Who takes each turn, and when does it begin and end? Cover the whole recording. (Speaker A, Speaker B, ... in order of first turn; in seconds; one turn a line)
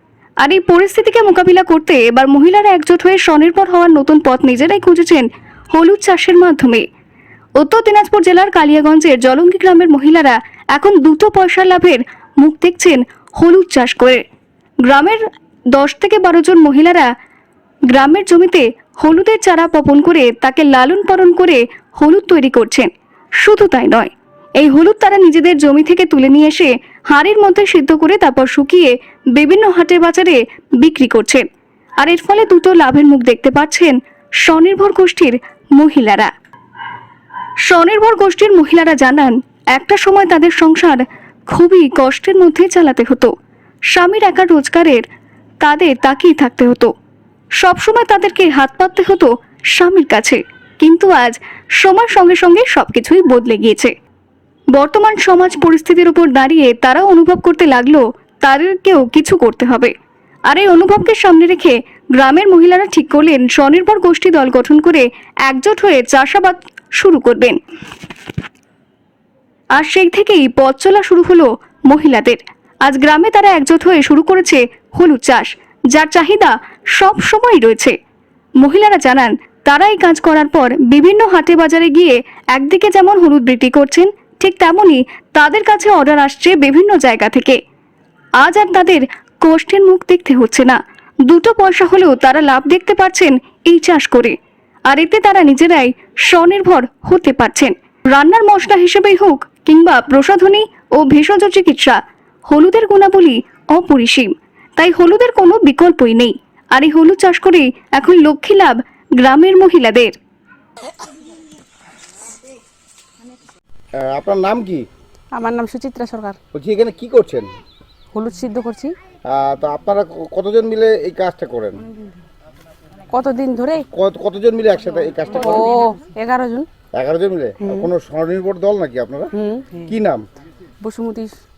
Speaker A: 0.4-6.9
Speaker A: 7.6-14.2
Speaker A: 14.8-17.1
Speaker A: 17.9-31.5
Speaker A: 32.0-36.3
Speaker A: 37.6-43.3
Speaker A: 43.9-45.1
Speaker A: 45.6-46.9
Speaker A: 47.6-53.9
Speaker A: 54.7-59.9
Speaker A: 60.5-67.6
Speaker A: 69.8-78.0
Speaker A: 78.6-87.6
Speaker A: 88.4-94.4
Speaker A: 94.9-110.2
Speaker B: 114.0-114.9
Speaker C: 115.3-116.4
Speaker B: 116.5-117.5
Speaker C: 118.1-118.9
Speaker B: 119.2-121.8
Speaker C: 123.1-123.9
Speaker B: 123.9-125.7
Speaker C: 125.4-126.7
Speaker B: 126.9-129.3
Speaker C: 127.6-127.9
Speaker C: 129.3-129.9
Speaker B: 129.9-130.2
Speaker C: 130.8-131.3